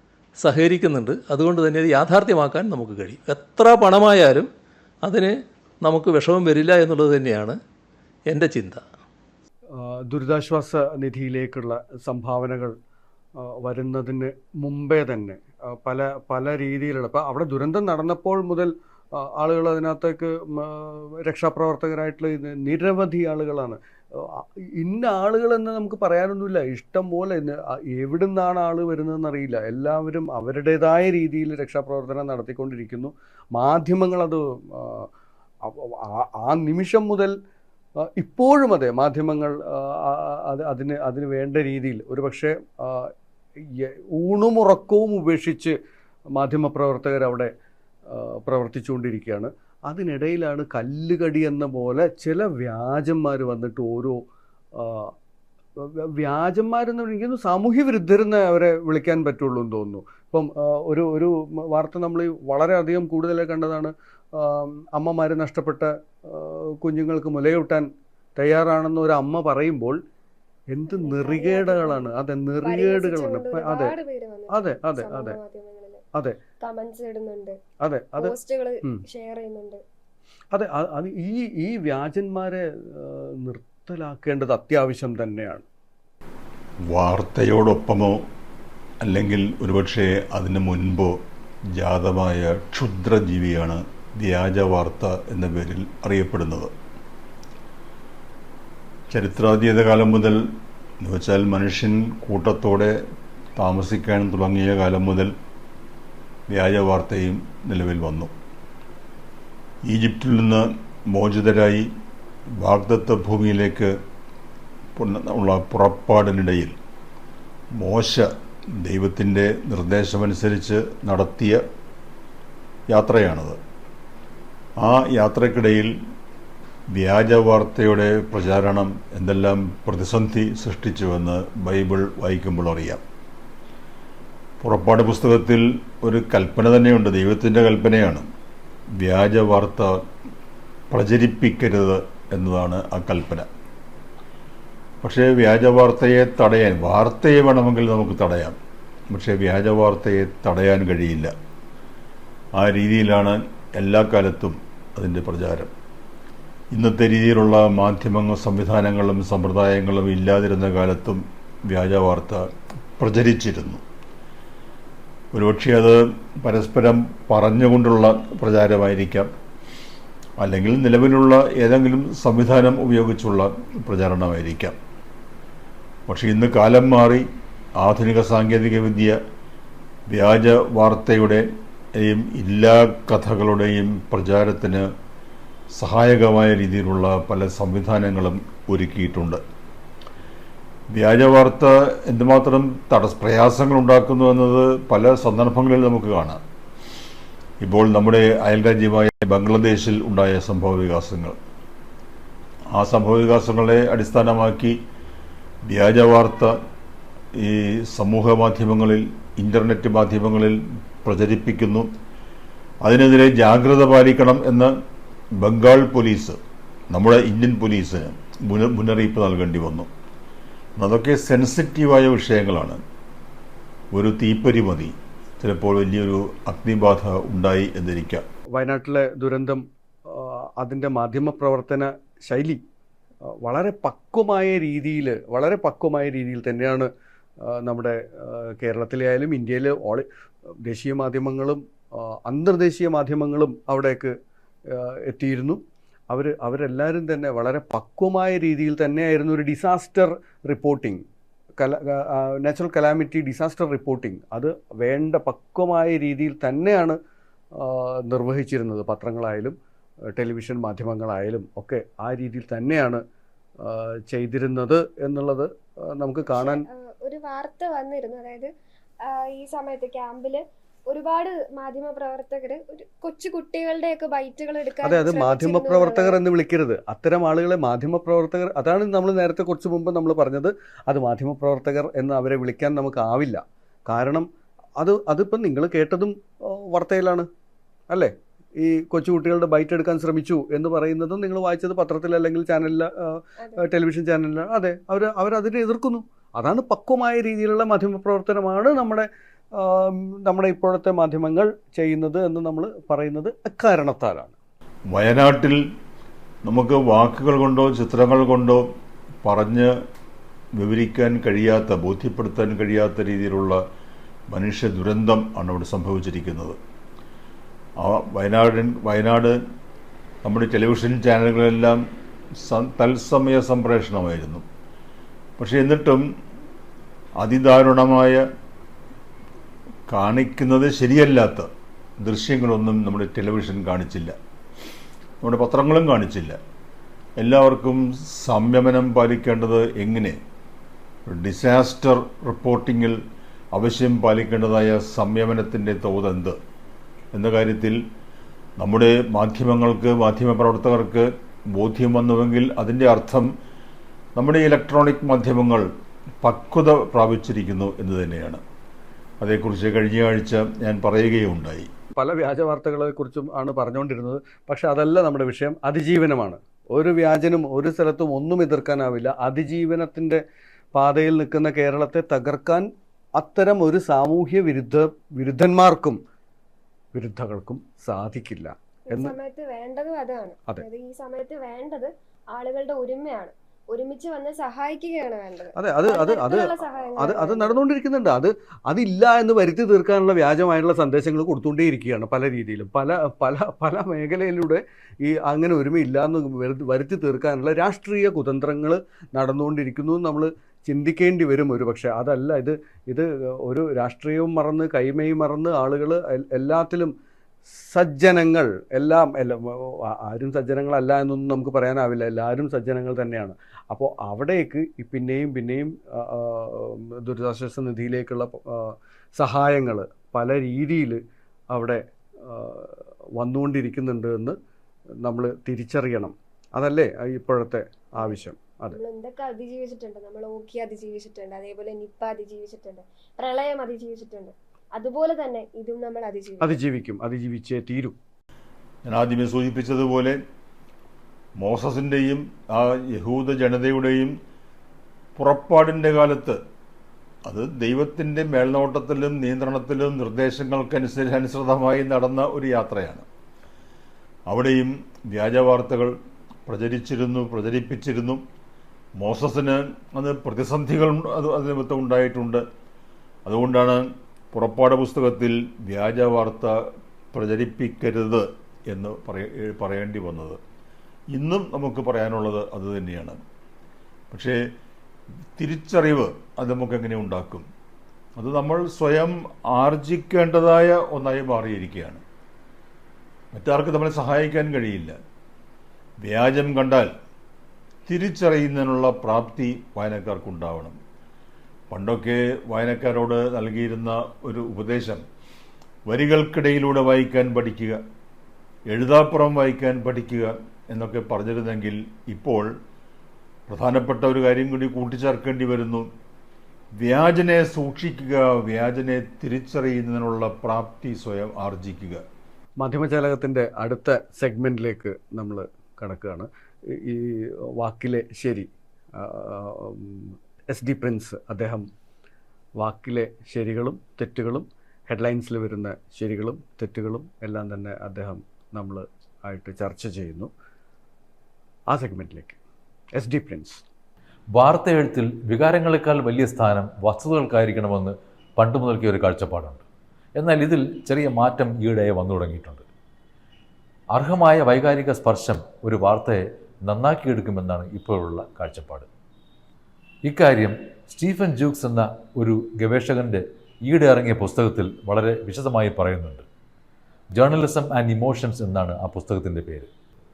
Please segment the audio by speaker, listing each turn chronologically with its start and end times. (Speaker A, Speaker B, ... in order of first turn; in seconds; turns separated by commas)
Speaker A: 0.4-4.5, Speaker A: 5.0-7.6, Speaker A: 8.3-8.8, Speaker B: 9.8-12.8, Speaker B: 13.4-35.1, Speaker B: 35.6-37.3, Speaker B: 38.0-43.1, Speaker B: 43.8-45.8, Speaker B: 46.4-47.5, Speaker B: 48.1-54.2, Speaker B: 54.8-55.1, Speaker B: 55.8-70.0, Speaker B: 70.7-74.0, Speaker C: 70.9-76.0, Speaker B: 74.5-75.4, Speaker C: 76.6-77.6, Speaker B: 77.8-79.0, Speaker C: 78.2-79.8, Speaker B: 80.5-85.7, Speaker D: 86.9-88.2, Speaker D: 89.0-91.2, Speaker D: 91.7-96.7, Speaker D: 99.1-103.0, Speaker D: 103.6-105.3, Speaker D: 106.5-108.3, Speaker D: 109.9-111.9, Speaker D: 112.6-113.9, Speaker D: 115.0-116.8, Speaker D: 117.8-121.6, Speaker D: 122.9-123.6, Speaker D: 124.8-125.9, Speaker D: 126.9-133.0, Speaker D: 134.6-138.3, Speaker D: 139.0-140.0, Speaker D: 140.9-143.5, Speaker D: 145.0-148.6, Speaker D: 149.1-151.3, Speaker D: 152.6-155.7, Speaker D: 156.7-163.8, Speaker D: 165.3-169.3, Speaker D: 170.4-174.8, Speaker D: 176.1-177.3, Speaker D: 177.8-179.2, Speaker D: 180.1-181.5, Speaker D: 182.0-184.9, Speaker D: 185.8-189.4, Speaker D: 190.9-196.4, Speaker D: 197.6-201.4, Speaker D: 202.7-204.8, Speaker D: 205.7-206.6, Speaker D: 207.4-211.9, Speaker D: 212.8-214.7, Speaker D: 215.4-216.4, Speaker D: 216.9-219.9, Speaker D: 220.8-222.8, Speaker D: 223.9-228.3, Speaker B: 228.6-232.6, Speaker B: 233.4-236.9, Speaker B: 237.4-240.1, Speaker B: 240.6-244.2, Speaker B: 244.7-251.0, Speaker B: 251.6-257.0, Speaker B: 257.6-259.6, Speaker B: 260.1-263.0, Speaker B: 263.6-266.6, Speaker C: 266.3-268.5, Speaker C: 269.1-276.2, Speaker B: 274.8-284.3, Speaker B: 284.8-287.3, Speaker B: 287.9-304.4, Speaker D: 304.9-305.6, Speaker D: 306.4-308.7, Speaker D: 309.2-309.7, Speaker D: 310.6-313.6, Speaker D: 314.3-316.6, Speaker D: 317.8-319.4, Speaker D: 320.2-321.8, Speaker D: 322.4-324.4, Speaker D: 325.4-326.0, Speaker D: 327.2-328.2, Speaker D: 329.9-331.5, Speaker D: 332.0-334.1, Speaker D: 335.2-336.4, Speaker D: 337.2-340.2, Speaker D: 341.1-343.0, Speaker D: 343.6-346.4, Speaker D: 347.1-347.8, Speaker D: 348.6-353.3, Speaker D: 354.2-355.7, Speaker D: 356.2-358.4, Speaker D: 359.2-361.7, Speaker B: 362.0-370.2, Speaker B: 370.8-376.0, Speaker B: 376.9-379.1, Speaker C: 378.9-387.6, Speaker B: 385.6-406.9, Speaker B: 407.6-421.0, Speaker B: 421.5-424.4, Speaker B: 425.0-428.8, Speaker C: 428.0-436.6, Speaker B: 436.4-438.0, Speaker D: 438.9-440.2, Speaker D: 441.4-444.1, Speaker D: 445.2-446.4, Speaker D: 447.3-453.1, Speaker D: 454.3-455.9, Speaker D: 456.5-458.2, Speaker D: 459.0-462.4, Speaker D: 463.3-466.6, Speaker D: 467.1-470.4, Speaker D: 471.1-473.2, Speaker D: 474.1-474.4, Speaker D: 475.4-477.5, Speaker D: 478.2-482.0, Speaker D: 483.3-485.0, Speaker D: 486.0-486.9, Speaker D: 487.9-490.8, Speaker D: 491.7-495.0, Speaker D: 495.9-497.8, Speaker D: 498.7-502.5, Speaker D: 503.5-505.9, Speaker D: 506.8-512.0, Speaker B: 512.6-521.6, Speaker B: 522.6-530.3, Speaker B: 531.7-532.4, Speaker B: 533.0-533.6, Speaker E: 534.4-539.6, Speaker E: 540.2-542.7, Speaker E: 543.9-548.9, Speaker E: 550.0-556.2, Speaker E: 557.2-559.7